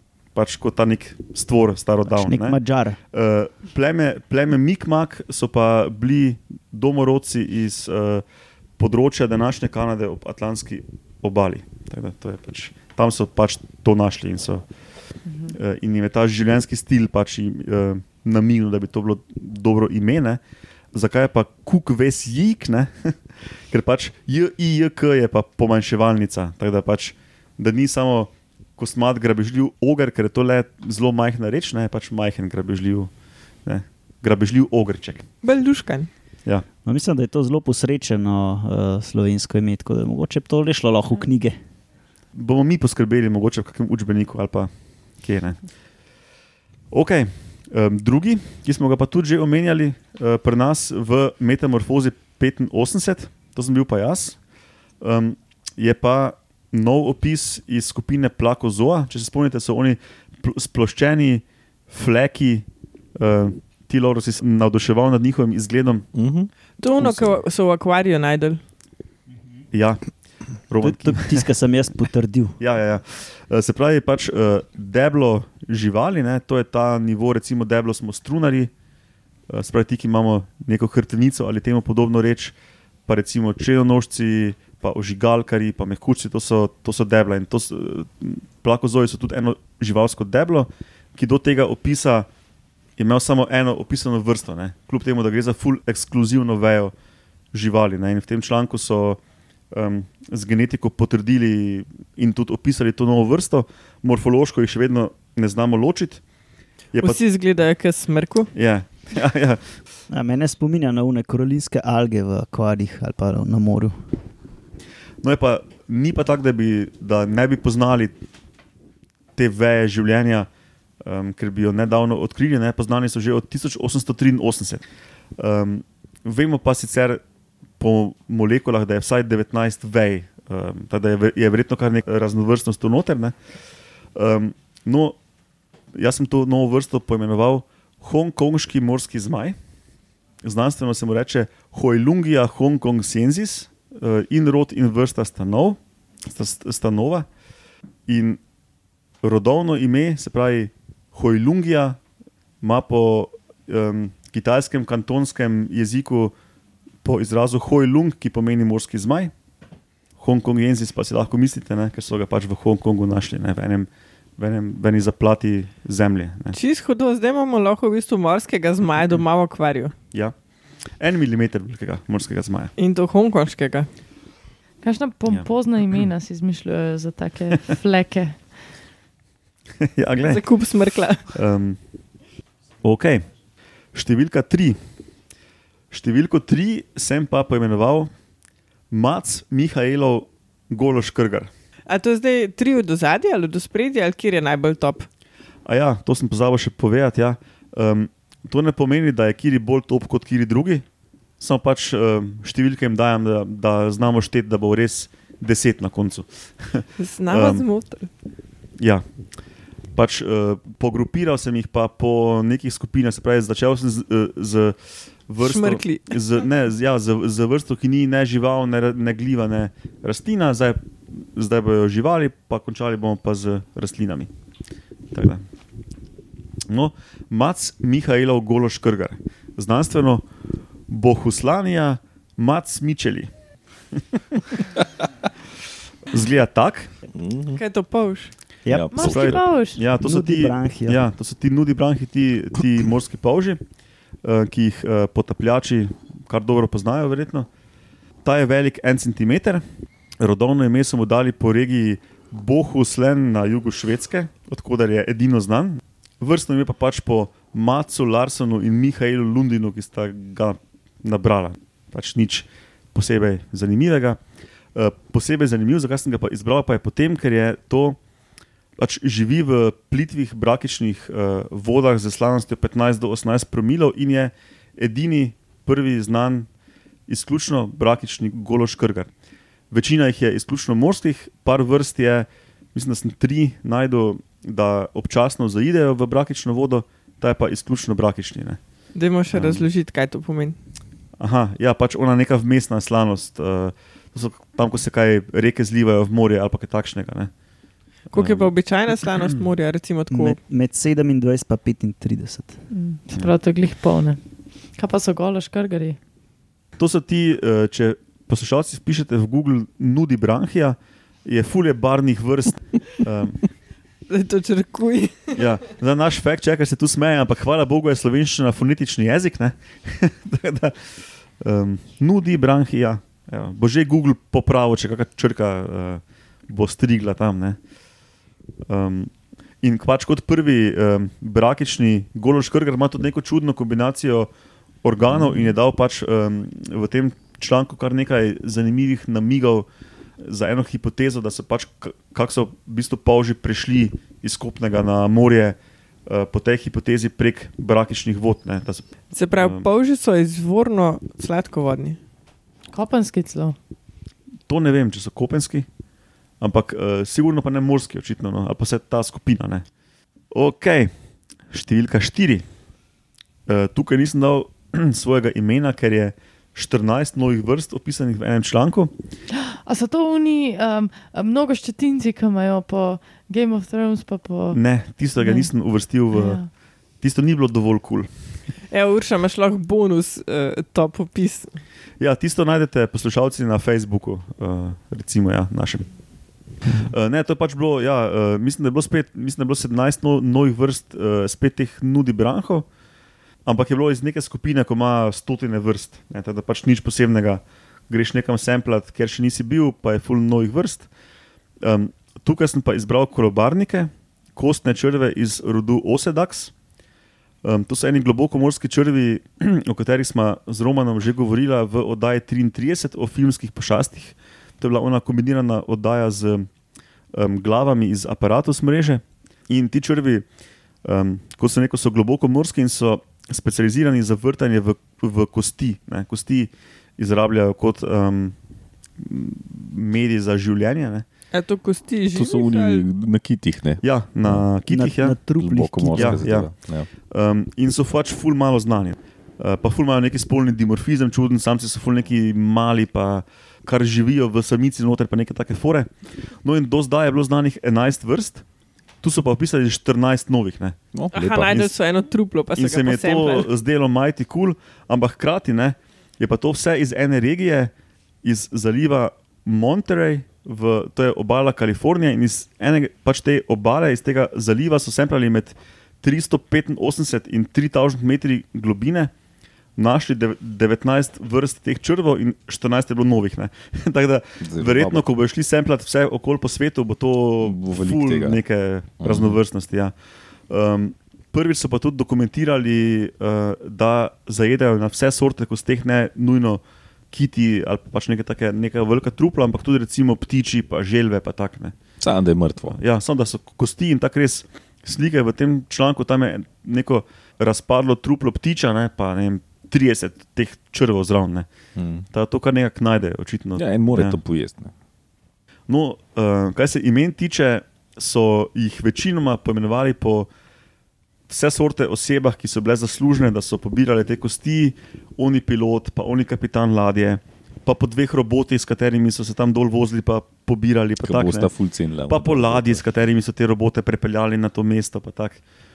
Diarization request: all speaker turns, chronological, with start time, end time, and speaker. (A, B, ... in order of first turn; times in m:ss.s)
0:00.3-0:02.6 A
0:02.1-0:03.0 B
0:03.1-0:08.2 A
0:08.8-0:14.6 A
0:15.5-0:20.4 A
0:20.9-0:23.2 A
0:23.7-0:33.1 A
0:33.6-0:35.2 A
0:35.4-0:36.1 C
0:36.8-0:41.6 B
0:42.3-0:45.6 A
0:46.9-0:54.4 A
0:55.0-1:06.1 A
1:06.1-1:07.4 D
1:06.8-1:08.6 C
1:09.7-1:11.5 A
1:10.8-1:12.6 B
1:12.6-1:18.7 A
1:19.5-1:22.5 A
1:23.0-1:32.3 A
1:33.0-1:36.9 A
1:37.5-1:39.2 A
1:39.7-1:46.2 A
1:46.9-1:47.2 A
1:47.0-1:48.5 C
1:48.5-1:49.6 A
1:50.1-1:54.0 B
1:55.2-1:58.2 A
1:59.4-2:00.5 A
2:01.0-2:04.8 A
2:05.4-2:07.2 A
2:07.8-2:13.4 A
2:14.1-2:15.2 A
2:15.9-2:19.6 A
2:20.4-2:27.3 A
2:28.1-2:28.4 A
2:29.2-2:32.0 A
2:32.6-2:36.3 A
2:37.0-2:39.3 A
2:40.2-2:46.6 A
2:46.5-2:49.9 C
2:51.0-2:52.7 A
2:52.8-2:53.9 C
2:54.8-2:58.4 E
2:55.3-2:56.0 A
2:59.8-3:00.4 A
3:00.2-3:01.3 C
3:01.3-3:01.8 A
3:02.8-3:03.2 A
3:03.9-3:04.8 A
3:05.9-3:08.1 A
3:08.9-3:11.5 A
3:11.9-3:15.1 C
3:15.6-3:20.8 A
3:21.4-3:27.6 A
3:27.0-3:28.1 C
3:28.8-3:29.0 A
3:29.9-3:34.8 A
3:35.3-3:44.3 A
3:35.4-3:36.1 C
3:45.1-3:45.4 A
3:46.7-3:50.2 A
3:50.9-3:53.3 A
3:53.9-3:54.6 A
3:56.1-3:56.9 A
3:57.1-3:57.6 D
3:57.6-3:58.3 C
3:58.6-3:59.0 B
3:58.7-3:59.4 D
3:58.9-3:59.8 E
3:59.0-4:03.6 A
4:00.0-4:01.0 B
4:04.2-4:07.5 A
4:08.2-4:09.6 A
4:10.2-4:24.2 A
4:24.7-4:28.0 A
4:28.8-4:36.5 A
4:37.1-4:39.1 A
4:39.7-4:48.6 A
4:48.9-4:50.6 C
4:49.3-4:49.6 A
4:51.2-4:57.3 A
4:58.1-5:00.4 C
4:58.1-4:58.5 A
4:59.1-4:59.4 A
5:00.1-5:02.6 B
5:02.7-5:04.2 E
5:04.8-5:06.0 E
5:06.8-5:13.4 A
5:14.1-5:15.4 C
5:15.3-5:27.6 A
5:28.7-5:29.1 A
5:29.6-5:34.3 A
5:34.8-5:39.7 A
5:35.1-5:35.5 D
5:40.2-5:49.7 A
5:49.1-5:52.0 C
5:52.7-5:53.6 E
5:54.5-5:55.6 A
5:56.4-5:59.6 A
6:00.3-6:00.9 A
6:01.5-6:02.4 A
6:03.5-6:08.9 A
6:09.4-6:14.6 E
6:14.5-6:16.4 A
6:15.2-6:15.5 E
6:16.1-6:16.5 E
6:17.0-6:18.1 A
6:18.7-6:21.6 C
6:22.0-6:25.9 A
6:26.7-6:32.6 A
6:33.4-6:40.9 A
6:41.6-6:46.5 A
6:47.4-6:56.5 A
6:57.1-7:00.2 A
7:00.8-7:08.4 A
7:09.0-7:11.0 A
7:11.3-7:12.8 C
7:12.1-7:14.5 D
7:13.8-7:15.2 A
7:14.7-7:16.2 B
7:15.4-7:16.9 D
7:15.9-7:16.5 A
7:17.0-7:25.9 A
7:26.4-7:28.4 A
7:29.0-7:30.8 A
7:30.9-7:31.7 D
7:31.1-7:33.5 C
7:32.6-7:37.7 A
7:38.2-7:49.1 A
7:49.8-7:59.9 A
7:54.4-7:55.1 D
7:57.4-7:58.4 D
7:59.0-7:59.4 D
8:00.5-8:11.8 A
8:12.0-8:12.8 D
8:12.7-8:21.5 A
8:21.8-8:22.1 D
8:22.1-8:24.2 A
8:23.5-8:24.7 D
8:25.7-8:30.3 A
8:31.3-8:41.5 A
8:41.0-8:42.8 D
8:42.1-8:45.4 A